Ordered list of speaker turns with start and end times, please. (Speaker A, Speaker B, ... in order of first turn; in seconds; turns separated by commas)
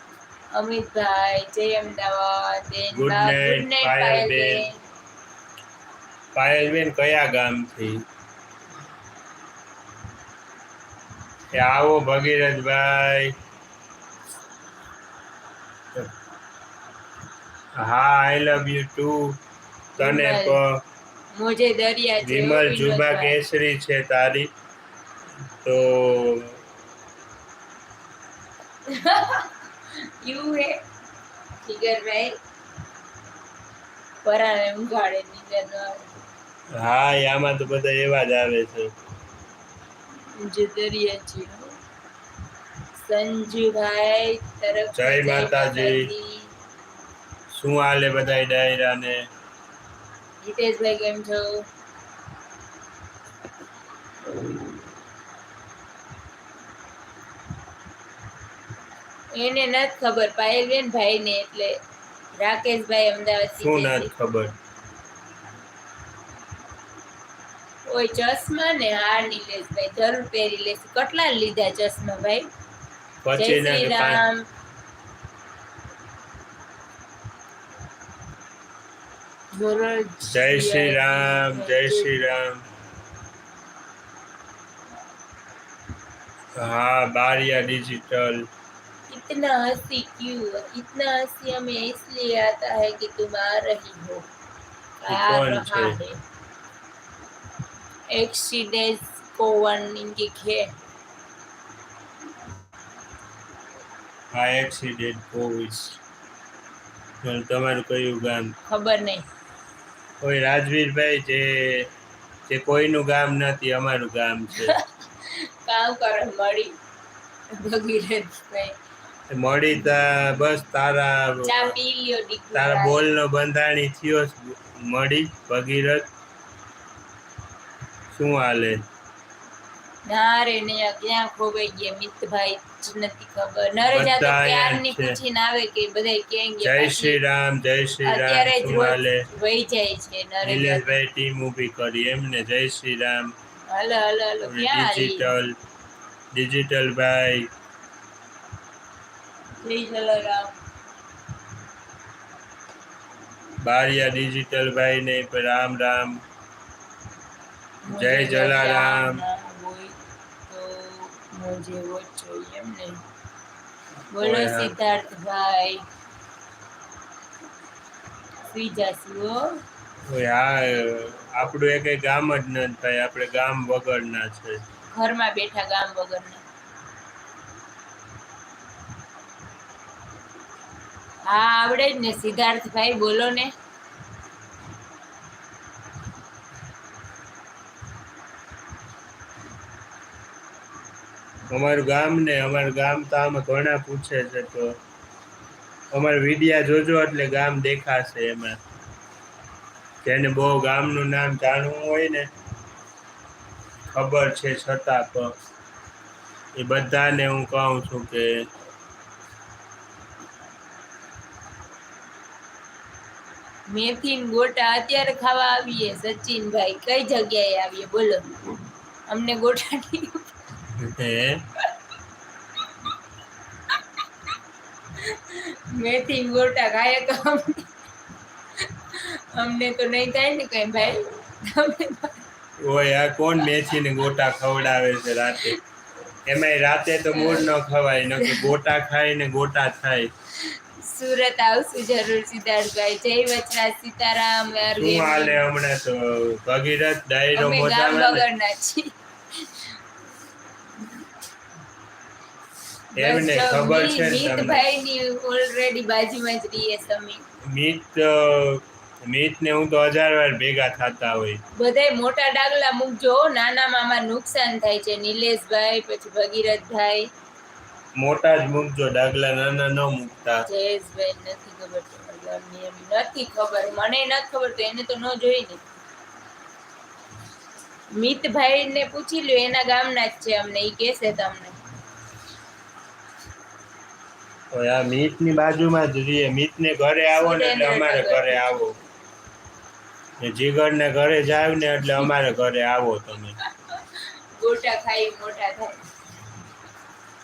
Speaker A: 0.5-4.8, Speaker B: 2.9-4.6, Speaker B: 6.3-8.0, Speaker B: 11.5-13.3, Speaker B: 17.8-19.4, Speaker B: 20.0-20.8, Speaker A: 20.0-20.6, Speaker A: 21.3-23.4, Speaker B: 22.2-24.5, Speaker B: 25.6-26.6, Speaker A: 28.9-30.8, Speaker A: 31.6-32.4, Speaker A: 34.2-36.1, Speaker B: 36.7-38.9, Speaker A: 40.3-41.7, Speaker A: 42.9-46.5, Speaker B: 44.9-46.1, Speaker B: 47.5-49.2, Speaker A: 50.4-51.6, Speaker A: 59.3-61.8, Speaker A: 62.4-64.1, Speaker B: 63.6-64.5, Speaker A: 67.9-72.5, Speaker B: 73.2-74.2, Speaker A: 73.4-74.5, Speaker A: 79.5-82.2, Speaker B: 80.3-82.6, Speaker B: 86.6-88.5, Speaker A: 89.1-94.2, Speaker A: 95.0-96.2, Speaker B: 95.1-96.0, Speaker A: 98.1-100.7, Speaker B: 104.3-106.0, Speaker B: 107.2-108.5, Speaker A: 108.7-109.2, Speaker B: 110.2-111.9, Speaker B: 112.5-114.8, Speaker A: 114.5-116.8, Speaker A: 117.5-118.7, Speaker B: 119.3-121.7, Speaker A: 121.4-123.0, Speaker B: 122.5-126.1, Speaker B: 128.1-128.8, Speaker A: 130.1-137.2, Speaker B: 133.9-135.2, Speaker B: 136.6-139.2, Speaker A: 138.0-140.9, Speaker B: 140.4-143.3, Speaker A: 143.7-145.3, Speaker B: 144.4-145.5, Speaker B: 146.3-147.5, Speaker A: 149.6-150.5, Speaker B: 153.6-156.2, Speaker A: 157.8-160.0, Speaker B: 157.9-159.2, Speaker A: 160.5-163.0, Speaker A: 164.1-165.8, Speaker B: 164.2-164.7, Speaker A: 168.5-169.4, Speaker B: 170.1-174.6, Speaker A: 174.9-176.4, Speaker A: 181.3-183.5, Speaker B: 191.5-194.8, Speaker B: 195.9-198.6, Speaker B: 200.0-202.3, Speaker B: 203.9-205.3, Speaker B: 206.6-208.3, Speaker A: 213.7-218.2, Speaker A: 219.1-220.3, Speaker B: 220.8-221.4, Speaker A: 225.0-227.7, Speaker A: 228.7-232.2, Speaker B: 232.6-235.6, Speaker B: 236.2-240.1, Speaker A: 237.1-237.5, Speaker A: 238.2-238.5, Speaker A: 240.4-245.4, Speaker B: 244.8-248.2, Speaker A: 247.3-249.7, Speaker A: 252.9-257.2, Speaker B: 252.9-254.6, Speaker B: 257.5-261.4, Speaker A: 261.6-267.1, Speaker B: 268.0-270.4, Speaker A: 270.5-275.6, Speaker A: 277.9-281.6, Speaker B: 284.5-288.7, Speaker A: 287.1-288.4, Speaker B: 290.2-293.4, Speaker A: 293.7-295.8